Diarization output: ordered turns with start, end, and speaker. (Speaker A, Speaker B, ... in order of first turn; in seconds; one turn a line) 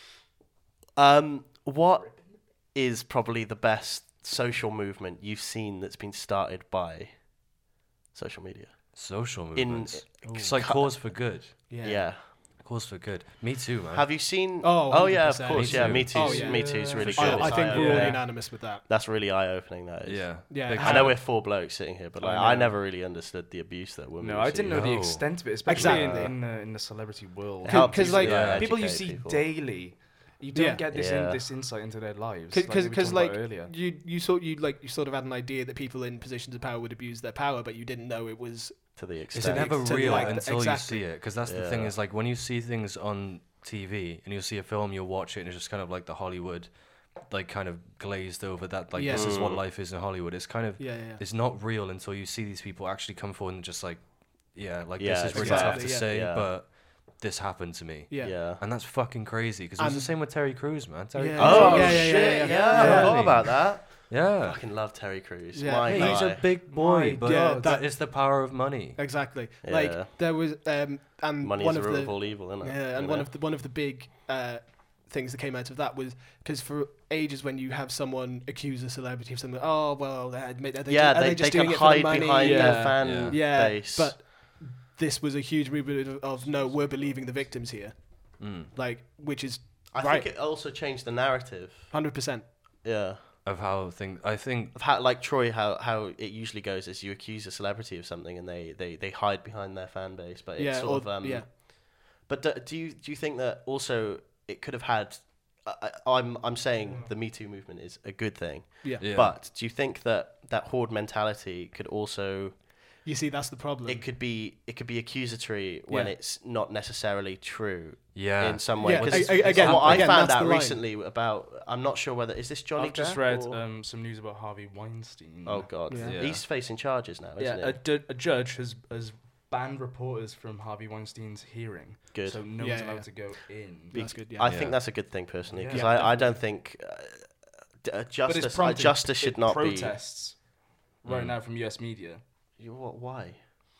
Speaker A: 1.0-12.3
Speaker B: 8.9-11.6
Speaker C: 10.2-11.1
Speaker C: 11.7-12.1
Speaker B: 12.3-14.1
Speaker A: 13.9-24.9
Speaker C: 14.6-18.9
Speaker B: 15.5-16.4
Speaker D: 16.1-18.2
Speaker B: 16.9-17.7
Speaker B: 20.0-21.2
Speaker C: 20.5-21.2
Speaker D: 22.2-22.8
Speaker D: 24.2-33.7
Speaker B: 24.7-25.5
Speaker C: 25.6-26.4
Speaker A: 25.8-26.3
Speaker C: 27.6-28.6
Speaker A: 27.6-29.4
Speaker B: 28.2-28.7
Speaker C: 30.5-30.8
Speaker A: 30.9-31.4
Speaker C: 32.5-41.1
Speaker A: 39.0-40.4
Speaker B: 39.3-64.6
Speaker A: 41.5-42.0
Speaker C: 48.9-49.4
Speaker A: 49.1-49.6
Speaker C: 50.8-51.2
Speaker A: 55.0-56.5
Speaker C: 55.3-56.1
Speaker C: 58.1-58.4
Speaker A: 58.2-58.6
Speaker C: 59.8-63.4
Speaker A: 61.4-66.5
Speaker D: 61.5-62.8
Speaker C: 65.5-90.3
Speaker B: 65.8-69.0
Speaker D: 66.7-67.8
Speaker A: 69.6-70.1
Speaker A: 71.4-73.3
Speaker A: 80.9-84.2
Speaker D: 82.4-83.1
Speaker B: 83.0-83.4
Speaker D: 86.5-87.4
Speaker B: 88.4-88.7
Speaker A: 89.9-92.1
Speaker C: 91.9-92.5
Speaker A: 92.8-93.2
Speaker B: 93.5-94.8
Speaker A: 94.7-112.6
Speaker C: 100.6-101.5
Speaker D: 106.8-107.1
Speaker B: 109.0-109.3
Speaker C: 113.0-114.0
Speaker A: 113.8-123.6
Speaker C: 115.9-116.1
Speaker B: 118.1-120.1
Speaker C: 118.8-120.8
Speaker D: 122.8-126.3
Speaker A: 125.5-127.8
Speaker C: 125.9-126.2
Speaker B: 126.0-126.4
Speaker D: 127.4-134.1
Speaker A: 132.1-132.4
Speaker C: 132.6-134.8
Speaker A: 133.9-140.0
Speaker B: 134.4-134.8
Speaker D: 135.5-136.4
Speaker C: 135.7-136.2
Speaker D: 138.3-142.2
Speaker B: 141.1-141.4
Speaker A: 142.6-143.4